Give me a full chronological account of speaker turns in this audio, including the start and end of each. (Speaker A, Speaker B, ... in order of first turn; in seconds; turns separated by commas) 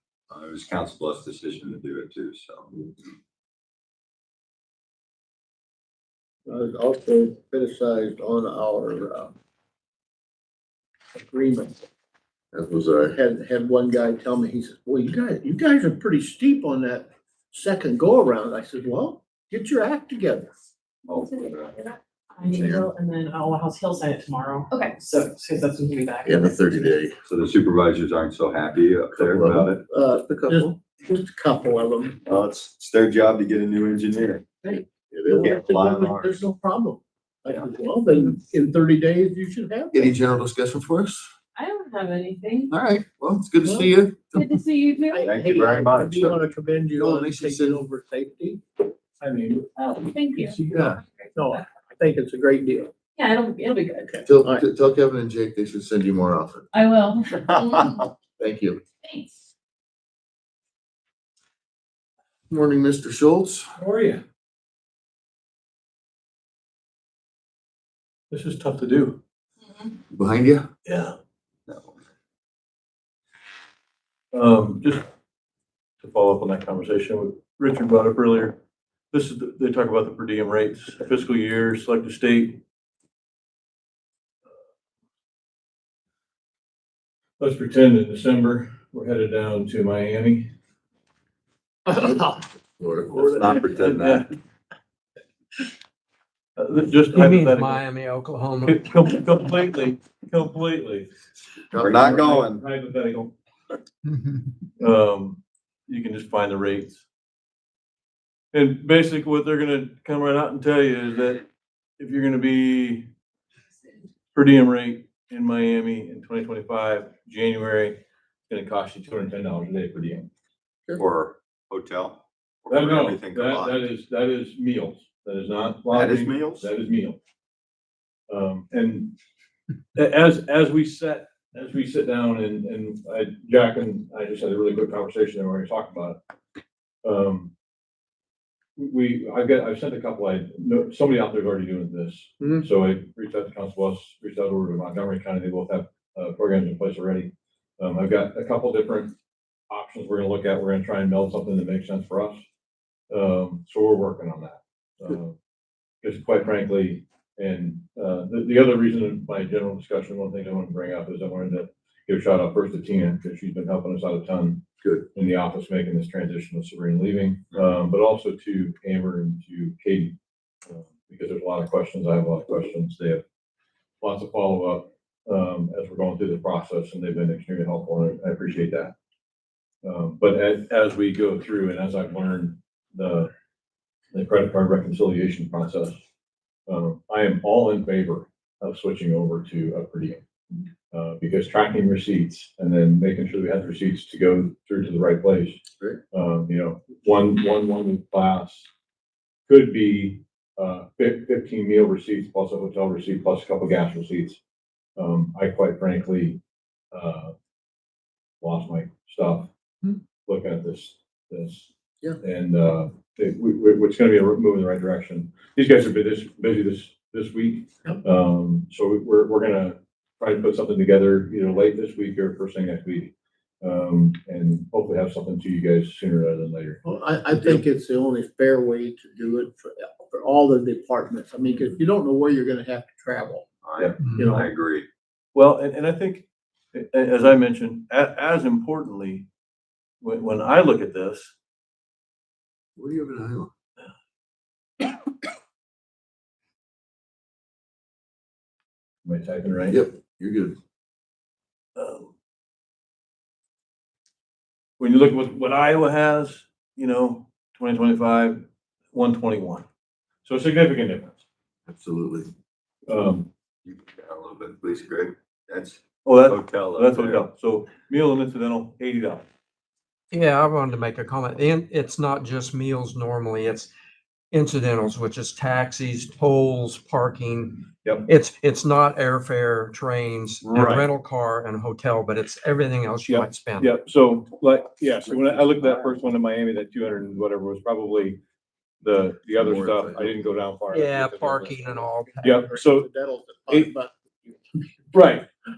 Speaker A: 0.3-2.7, Speaker B: 6.5-9.3, Speaker B: 11.1-11.8, Speaker C: 12.5-13.2, Speaker B: 13.1-20.5, Speaker A: 21.1-21.9, Speaker D: 21.7-26.9, Speaker C: 22.5-22.8, Speaker A: 22.5-22.9, Speaker C: 26.2-27.2, Speaker A: 27.3-29.8, Speaker C: 29.1-29.7, Speaker B: 29.9-32.2, Speaker C: 30.2-30.8, Speaker A: 32.2-34.4, Speaker B: 34.6-40.1, Speaker C: 35.1-35.5, Speaker A: 35.4-36.4, Speaker C: 39.9-41.3, Speaker D: 41.6-42.7, Speaker C: 42.7-44.5, Speaker B: 43.6-43.9, Speaker D: 44.3-45.4, Speaker B: 45.1-48.6, Speaker A: 45.2-46.4, Speaker C: 47.0-47.8, Speaker E: 49.2-49.7, Speaker D: 49.8-50.6, Speaker C: 50.4-51.0, Speaker B: 51.4-52.9, Speaker D: 53.2-54.2, Speaker B: 54.2-54.6, Speaker C: 54.2-56.7, Speaker D: 56.7-58.0, Speaker A: 57.3-58.1, Speaker C: 58.4-58.8, Speaker D: 59.0-59.4, Speaker C: 62.5-63.7, Speaker E: 63.8-64.2, Speaker E: 68.3-69.2, Speaker C: 70.1-70.7, Speaker E: 70.9-71.2, Speaker A: 71.7-72.0, Speaker E: 74.3-75.0, Speaker E: 76.0-78.6, Speaker E: 79.1-82.6, Speaker E: 87.4-90.5, Speaker B: 91.9-92.3, Speaker C: 92.8-93.4, Speaker E: 93.1-94.3, Speaker A: 93.3-94.3, Speaker E: 96.6-97.8, Speaker F: 97.1-98.8, Speaker E: 98.6-101.1, Speaker C: 101.7-102.4, Speaker A: 101.8-102.6, Speaker E: 101.9-103.3, Speaker E: 104.8-107.0, Speaker E: 108.5-111.5, Speaker E: 112.0-113.1, Speaker E: 114.3-120.3, Speaker A: 121.0-123.9, Speaker E: 122.7-127.2, Speaker A: 125.9-126.7, Speaker E: 128.3-129.2, Speaker E: 129.9-136.2, Speaker E: 137.0-137.5, Speaker E: 138.8-149.2, Speaker E: 149.7-152.4, Speaker E: 153.1-155.4, Speaker E: 156.0-173.2, Speaker C: 164.8-165.1, Speaker E: 174.0-178.9, Speaker E: 179.8-183.3, Speaker E: 184.1-186.0, Speaker E: 186.7-190.2, Speaker E: 190.9-198.7, Speaker E: 199.5-204.4, Speaker E: 205.0-206.4, Speaker E: 206.9-207.3, Speaker E: 208.4-209.5, Speaker E: 210.2-211.7, Speaker E: 212.2-226.8, Speaker B: 226.8-233.4, Speaker A: 233.6-234.9, Speaker E: 233.8-234.1, Speaker B: 234.1-234.5, Speaker E: 235.3-239.3, Speaker E: 240.0-241.3, Speaker C: 242.8-243.5, Speaker E: 249.1-249.8, Speaker C: 249.7-250.6, Speaker E: 251.8-252.1, Speaker E: 254.8-259.6, Speaker E: 260.2-261.2, Speaker C: 261.7-262.3, Speaker E: 262.9-263.3, Speaker A: 263.6-267.3, Speaker E: 266.1-269.3, Speaker F: 270.1-273.7, Speaker F: 274.3-283.7, Speaker E: 277.8-278.1, Speaker E: 280.4-280.9, Speaker E: 283.0-288.2, Speaker E: 288.8-292.9, Speaker C: 289.4-290.1, Speaker F: 290.7-292.3, Speaker B: 292.1-294.7, Speaker E: 294.9-295.3